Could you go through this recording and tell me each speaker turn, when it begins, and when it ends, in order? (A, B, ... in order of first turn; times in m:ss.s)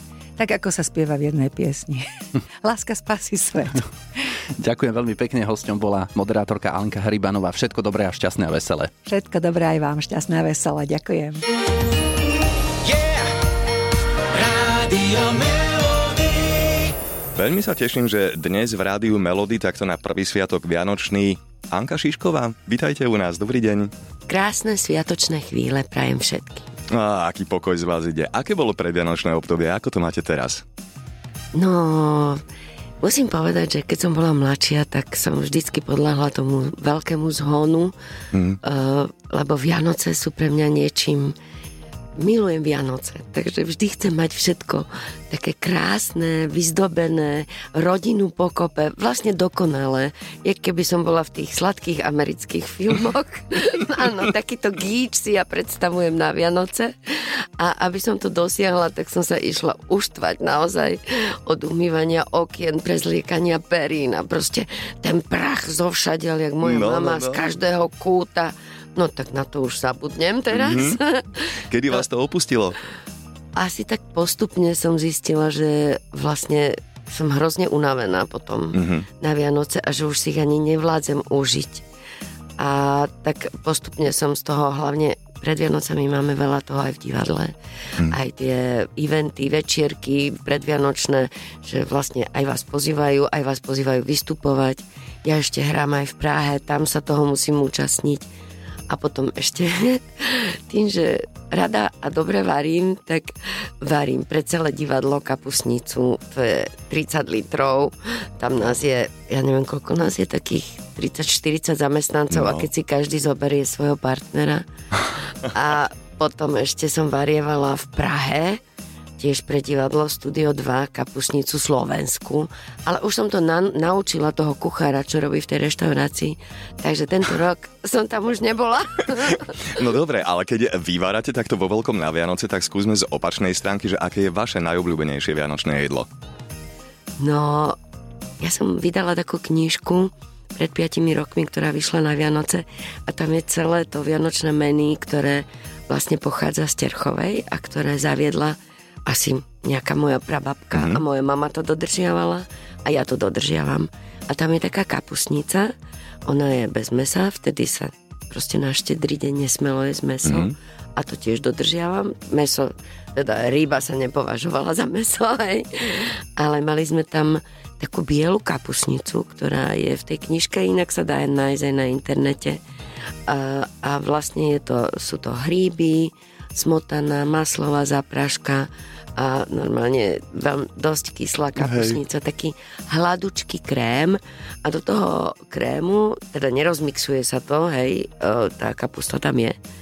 0:00.4-0:02.1 A
0:02.6-0:03.8 A
0:04.6-0:08.9 B
0:09.1-0:11.4 A
0:12.8-0:13.3 C
0:14.3-0:16.9 C
0:17.4-0:23.9 D
0:24.3-0:26.7 E
0:26.9-0:30.6 D
0:31.5-0:32.4 E
0:33.0-0:37.9 E
0:38.6-0:41.4 E
0:42.2-1:12.0 E
1:06.6-1:07.4 D
1:10.5-1:10.9 D
1:11.7-1:12.8 D
1:13.6-1:21.8 E
1:18.8-1:19.1 D
1:22.6-1:38.3 E
1:38.9-1:54.6 E
1:52.3-1:52.7 D
1:55.4-1:58.6 E
1:59.2-2:09.8 E
2:09.8-2:16.1 D
2:17.2-2:17.8 E
2:18.4-2:35.7 E
2:30.7-2:31.0 D
2:36.3-2:52.6 E
2:40.2-2:40.5 D
2:53.3-3:09.6 E
3:01.7-3:02.0 D